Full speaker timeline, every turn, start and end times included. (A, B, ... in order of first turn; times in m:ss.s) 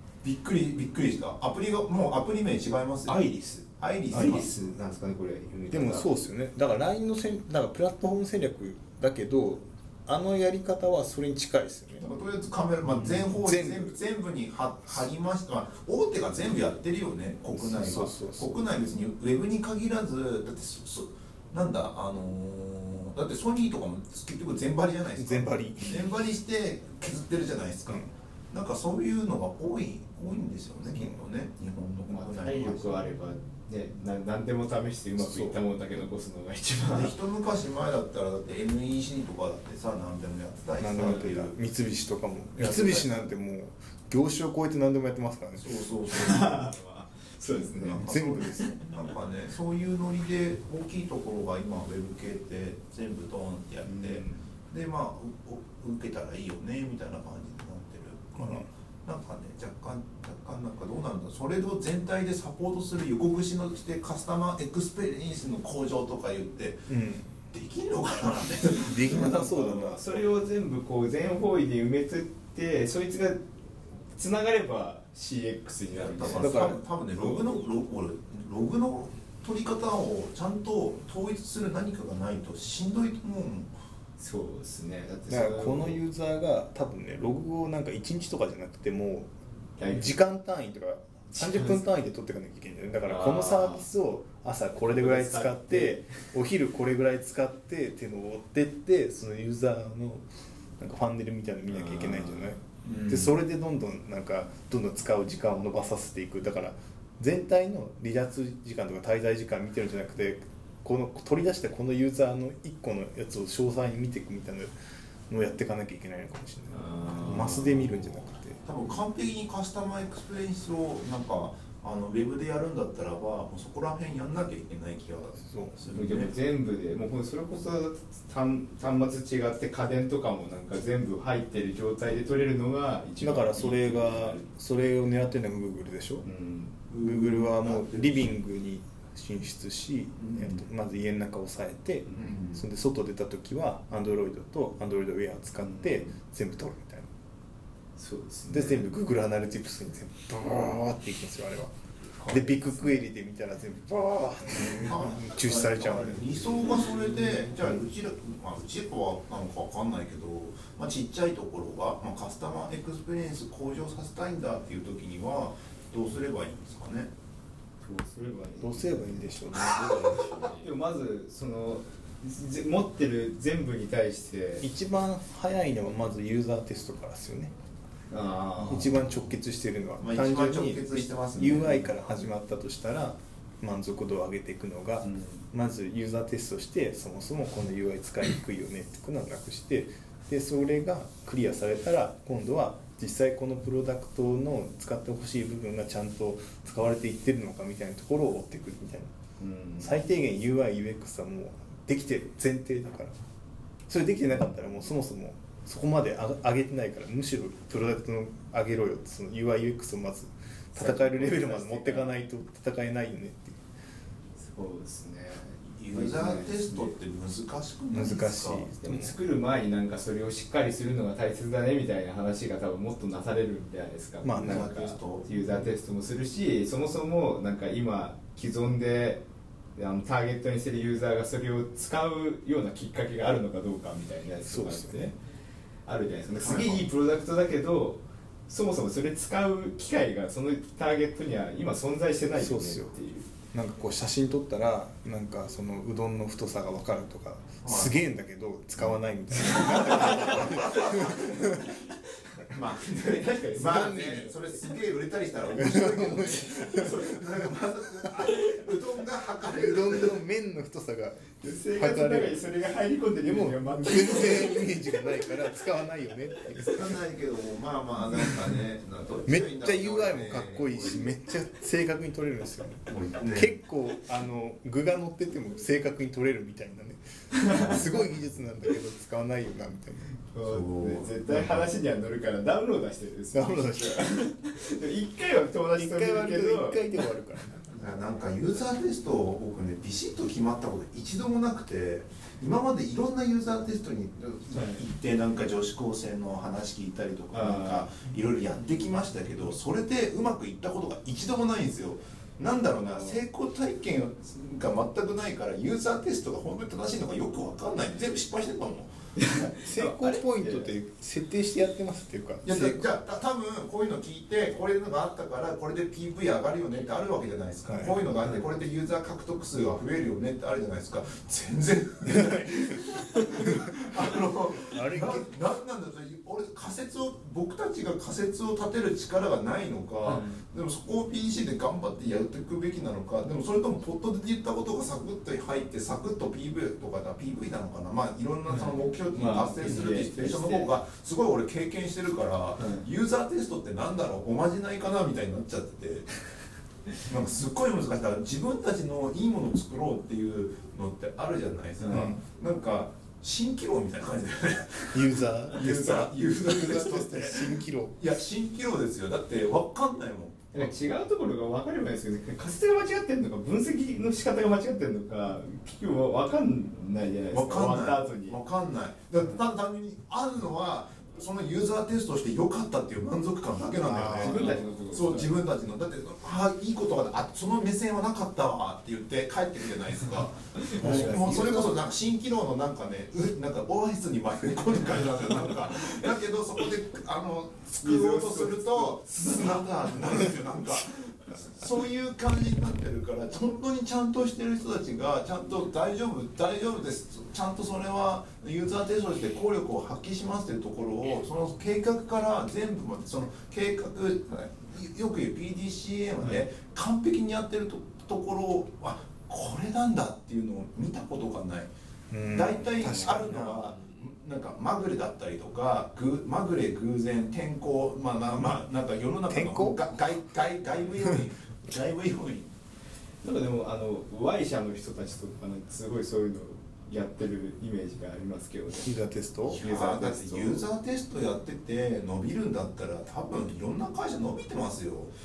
0:00.2-0:03.3 A
0:03.1-0:06.1 B
0:03.8-0:04.5 A
0:04.1-0:04.4 C
0:05.7-0:12.1 C
0:12.0-0:33.1 A
0:12.9-0:13.3 B
0:13.4-0:14.0 C
0:17.5-0:18.6 C
0:25.2-0:26.0 C
0:32.1-0:37.2 B
0:35.2-0:35.6 C
0:36.9-0:41.6 A
0:40.8-0:45.7 C
0:41.0-0:41.2 B
0:42.6-0:43.3 A
0:45.6-0:46.7 A
0:46.1-0:48.7 B
0:47.5-1:06.9 A
0:48.0-0:48.7 C
0:53.8-0:54.4 B
0:58.4-0:58.7 C
1:06.9-1:07.3 C
1:07.5-1:10.0 A
1:08.8-1:10.0 C
1:09.3-1:13.4 B
1:14.2-1:17.4 B
1:15.9-1:23.7 A
1:16.4-1:16.8 C
1:24.2-1:26.0 B
1:25.3-1:29.3 C
1:29.8-1:30.1 B
1:29.9-1:40.2 C
1:31.3-1:31.8 B
1:33.1-1:33.9 B
1:34.9-1:36.1 B
1:40.8-1:54.7 C
1:41.7-1:42.6 B
1:42.8-1:43.3 A
1:55.3-1:58.6 C
1:56.7-1:58.1 B
1:58.6-2:06.3 A
2:05.4-2:05.8 C
2:05.9-2:14.5 B
2:13.2-2:16.3 C
2:16.2-2:16.8 B
2:16.9-2:18.4 A
2:17.0-2:27.1 C
2:20.2-2:20.6 A
2:22.2-2:22.6 A
2:25.6-2:26.1 B
2:28.0-2:28.9 B
2:28.5-2:31.7 C
2:32.2-2:32.9 B
2:32.3-2:36.8 C
2:34.7-2:47.1 A
2:36.8-2:37.6 B
2:47.8-2:54.6 B
2:48.6-2:50.3 C
2:54.6-2:57.5 C
2:58.1-2:59.0 B
2:58.6-3:19.1 C
3:00.0-3:01.9 A
3:05.0-3:05.4 B
3:19.4-3:20.0 B
3:19.8-3:23.1 C
3:23.9-3:33.6 C
3:30.8-3:32.2 B
3:34.4-3:36.9 B
3:35.8-3:38.7 A
3:37.9-3:39.2 C
3:38.8-3:49.2 B
3:44.2-3:44.7 C
3:44.4-3:45.3 A
3:49.8-3:55.2 B
3:54.5-3:55.1 C
3:55.9-4:03.3 B
3:56.4-3:56.9 A
4:02.4-4:02.9 C
4:03.5-4:11.6 C
4:07.6-4:08.0 A
4:09.4-4:14.4 B
4:09.9-4:11.2 A
4:12.5-4:20.2 A
4:13.6-4:14.3 C
4:15.6-4:17.0 C
4:19.5-4:22.4 C
4:21.4-4:25.3 B
4:23.3-4:26.9 C
4:26.6-4:31.1 A
4:29.3-4:40.1 C
4:32.9-4:33.5 A
4:37.4-4:38.0 B
4:40.3-4:47.0 B
4:40.4-4:41.6 A
4:43.3-4:44.2 C
4:45.8-4:47.8 C
4:47.7-5:08.9 A
4:54.5-4:54.8 B
4:57.3-4:57.9 B
5:09.2-5:10.7 B
5:09.6-5:12.8 C
5:12.4-5:46.1 A
5:17.7-5:18.0 C
5:24.7-5:25.3 C
5:30.0-5:30.4 B
5:38.5-5:40.7 B
5:42.6-5:42.8 B
5:47.0-6:00.7 A
5:51.8-5:52.1 B
5:51.9-5:52.2 C
5:54.9-5:58.0 C
6:00.5-6:08.4 B
6:07.3-6:51.7 A
6:13.8-6:14.6 C
6:14.1-6:15.3 B
6:20.6-6:21.6 B
6:20.8-6:21.7 C
6:27.8-6:29.7 B
6:52.1-6:53.7 C
6:52.3-7:02.5 A
6:59.3-6:59.9 C
7:03.2-7:08.9 B
7:08.8-7:09.6 C
7:09.5-7:15.1 A
7:09.5-7:10.6 B